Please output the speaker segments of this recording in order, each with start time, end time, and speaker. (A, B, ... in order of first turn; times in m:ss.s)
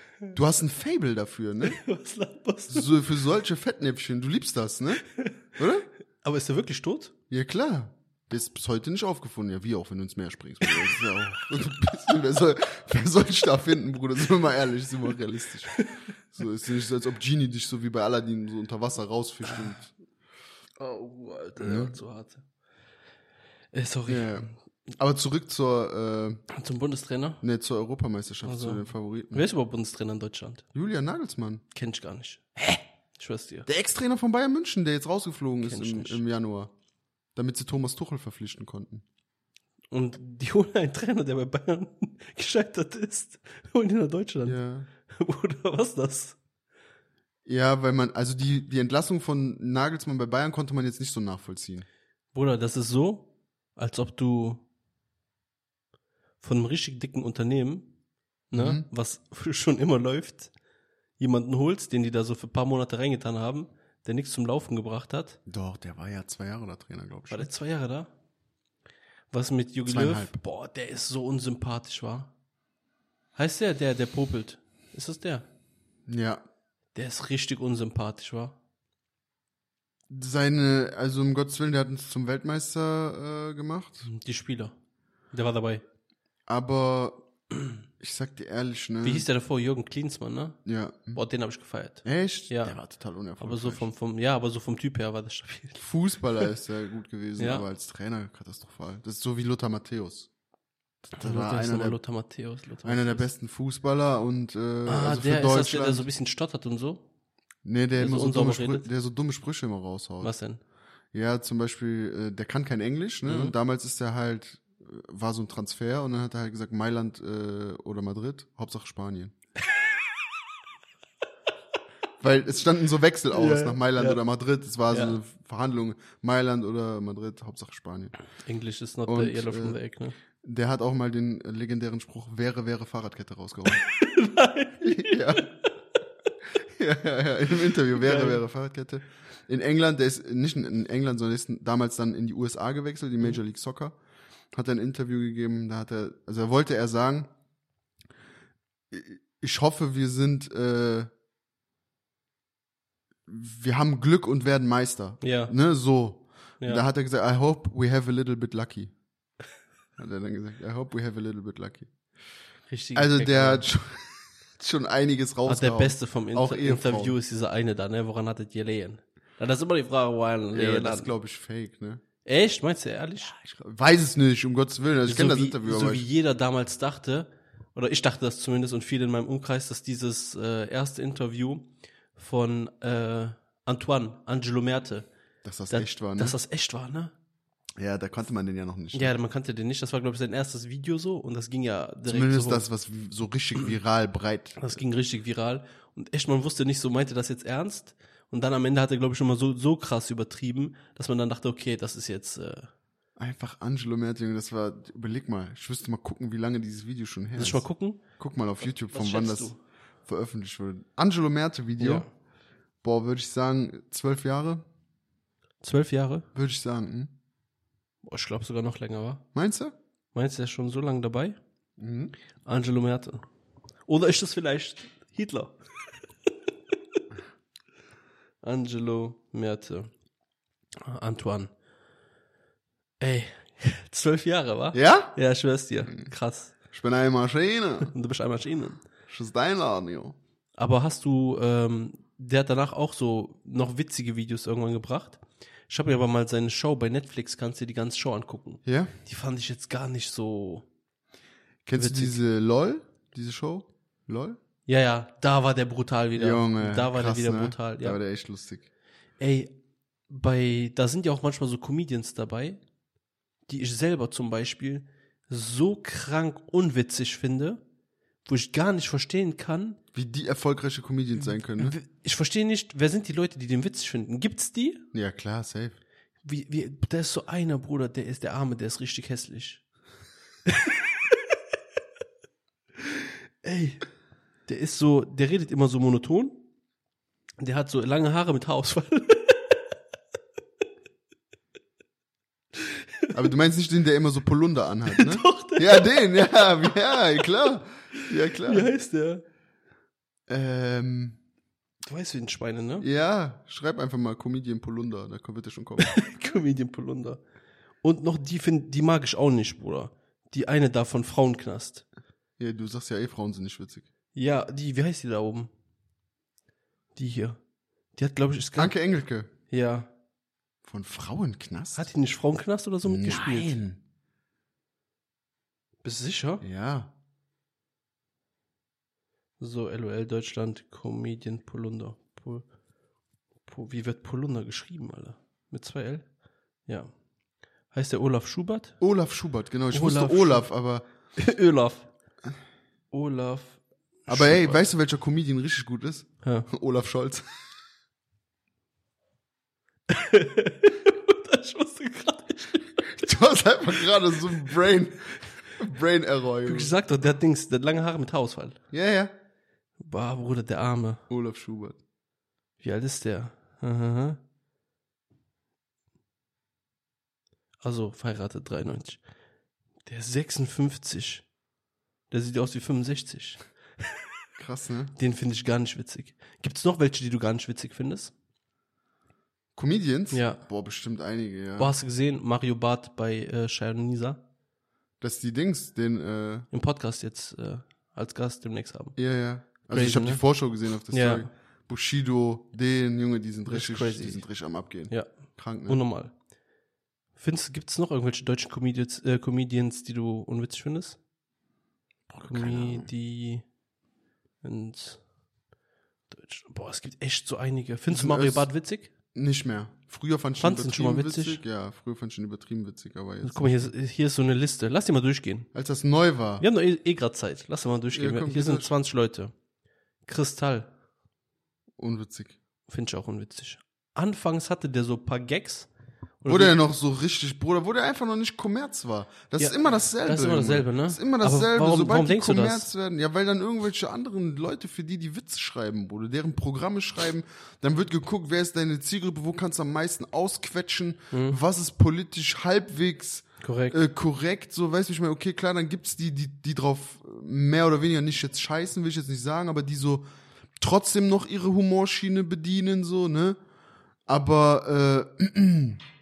0:00.3-0:01.8 A
0:01.6-0:02.9 B
0:02.7-0:05.9 A
0:05.1-0:05.4 B
0:06.2-0:07.1 B
0:07.3-0:19.9 A
0:19.4-0:19.8 B
0:20.8-0:22.4 B
0:21.6-0:22.0 A
0:23.7-0:24.5 B
0:24.1-0:26.4 A
0:26.5-0:27.4 B
0:27.4-0:29.5 A
0:28.4-0:30.6 B
0:30.7-0:31.6 A
0:31.7-0:33.7 B
0:33.7-0:36.7 A
0:35.6-0:36.2 B
0:37.4-0:39.0 A
0:39.9-0:44.6 B
0:44.4-0:44.9 A
0:45.1-0:46.4 B
0:47.5-0:51.9 A
0:52.3-0:54.6 B
0:56.4-0:57.9 B
0:58.5-1:00.5 B
0:58.5-0:58.9 A
1:01.2-1:05.4 B
1:05.5-1:07.5 A
1:07.3-1:08.1 B
1:09.3-1:12.3 B
1:09.9-1:10.4 A
1:13.4-1:15.5 B
1:16.1-1:16.4 A
1:17.0-1:18.6 B
1:20.1-1:24.1 A
1:24.1-1:24.8 B
1:25.3-1:25.8 B
1:26.5-1:27.2 A
1:28.0-1:29.2 A
1:29.0-1:30.6 B
1:30.7-1:31.2 A
1:31.1-1:32.8 B
1:32.0-1:33.9 A
1:33.4-1:35.8 B
1:35.8-1:40.3 A
1:37.4-1:37.6 B
1:41.1-1:42.0 A
1:41.2-1:43.3 B
1:42.8-1:46.1 A
1:44.9-1:47.0 B
1:47.6-1:50.3 A
1:48.0-1:48.9 B
1:50.2-1:50.6 B
1:51.1-1:59.3 A
1:53.2-1:53.6 B
2:02.2-2:08.1 A
2:03.3-2:04.2 B
2:04.9-2:05.2 B
2:08.4-2:10.2 B
2:09.1-2:09.8 A
2:10.4-2:13.8 A
2:13.7-2:15.5 B
2:14.8-2:15.5 A
2:16.8-2:24.0 A
2:17.9-2:18.4 B
2:24.5-2:27.3 A
2:28.9-2:31.1 A
2:33.3-2:38.9 A
2:35.2-2:35.5 B
2:40.0-2:41.9 A
2:42.7-2:43.7 B
2:43.0-2:47.2 A
2:45.5-2:51.1 B
2:50.5-2:52.0 A
2:52.2-2:53.3 B
2:53.4-2:56.0 A
2:55.1-3:05.1 B
3:05.4-3:06.4 A
3:05.7-3:07.1 B
3:07.8-3:09.2 A
3:08.9-3:12.7 B
3:12.1-3:14.8 A
3:14.6-3:22.7 B
3:23.2-3:27.7 A
3:27.4-3:28.0 B
3:28.2-3:29.5 A
3:28.6-3:29.6 B
3:30.1-3:32.1 A
3:31.8-3:32.1 B
3:32.8-3:34.6 A
3:35.6-3:36.3 B
3:36.4-3:37.1 A
3:38.0-3:39.2 B
3:39.3-3:39.7 A
3:40.1-3:41.4 B
3:41.8-3:42.1 A
3:42.4-3:43.2 B
3:43.9-3:45.6 B
3:48.4-3:49.9 B
3:50.8-3:51.5 B
3:53.0-3:56.5 B
3:54.7-3:55.2 A
3:56.7-3:57.9 A
3:57.8-3:58.8 B
3:59.1-4:00.2 A
4:00.6-4:10.7 B
4:08.6-4:09.0 A
4:11.7-4:14.4 A
4:11.8-4:12.2 B
4:14.7-4:18.0 B
4:16.2-4:18.7 A
4:19.2-4:19.5 B
4:20.1-4:22.6 B
4:23.5-4:27.6 B
4:28.2-4:29.8 B
4:29.9-4:31.8 A
4:31.2-4:34.8 B
4:34.9-4:35.8 A
4:36.2-4:39.6 B
4:40.5-4:41.4 B
4:43.4-4:43.8 B
4:44.5-4:46.4 B
4:47.4-4:49.8 B
4:52.6-4:53.2 B
4:53.1-4:58.7 A
4:54.9-4:57.5 B
4:58.2-4:59.2 B
5:00.3-5:01.2 A
5:01.8-5:02.9 B
5:02.8-5:06.0 A
5:05.8-5:07.2 B
5:07.8-5:11.9 B
5:12.4-5:13.9 A
5:14.2-5:15.5 B
5:17.0-5:17.4 B
5:18.0-5:18.8 B
5:18.6-5:19.3 A
5:19.5-5:19.9 B
5:20.6-5:21.9 A
5:21.8-5:23.6 B
5:22.8-5:23.8 A
5:25.8-5:26.4 B
5:26.4-5:26.9 A
5:29.4-5:32.5 B
5:33.4-5:36.1 B
5:36.7-5:36.9 B
5:37.7-5:38.8 B
5:38.8-5:40.9 A
5:39.7-5:40.5 B
5:41.2-5:41.9 B
5:42.9-5:44.6 B
5:44.1-5:47.2 A
5:46.2-5:46.5 B
5:49.9-5:53.1 B
5:52.8-5:56.7 A
5:56.4-5:58.6 B
5:58.7-5:59.1 A
5:59.8-6:01.0 B
6:01.1-6:01.8 A
6:02.6-6:04.2 B
6:07.6-6:09.0 B
6:09.8-6:11.2 B
6:12.1-6:14.0 B
6:14.4-6:14.9 A
6:15.0-6:18.1 B
6:19.6-6:21.7 A
6:20.1-6:20.4 B
6:21.6-6:24.2 B
6:25.0-6:26.5 A
6:26.5-6:29.0 B
6:29.0-6:35.8 A
6:29.7-6:30.2 B
6:30.9-6:31.3 B
6:33.5-6:34.2 B
6:35.7-6:36.1 B
6:37.2-6:41.0 B
6:42.1-6:42.9 A
6:42.2-6:43.4 B
6:44.4-6:45.0 B
6:46.1-6:48.9 B
6:47.9-6:48.5 A
6:49.1-6:53.7 A
6:50.4-6:51.4 B
6:53.2-6:55.5 B
6:55.5-6:56.4 A
6:56.4-6:59.3 B
6:57.9-6:58.7 A
7:00.0-7:00.7 B
7:01.8-7:02.4 A
7:02.7-7:05.7 B
7:06.2-7:06.6 B
7:06.3-7:30.0 A
7:09.4-7:12.7 B
7:21.1-7:21.4 B
7:23.4-7:23.8 B
7:30.6-7:33.4 A
7:34.1-7:35.8 A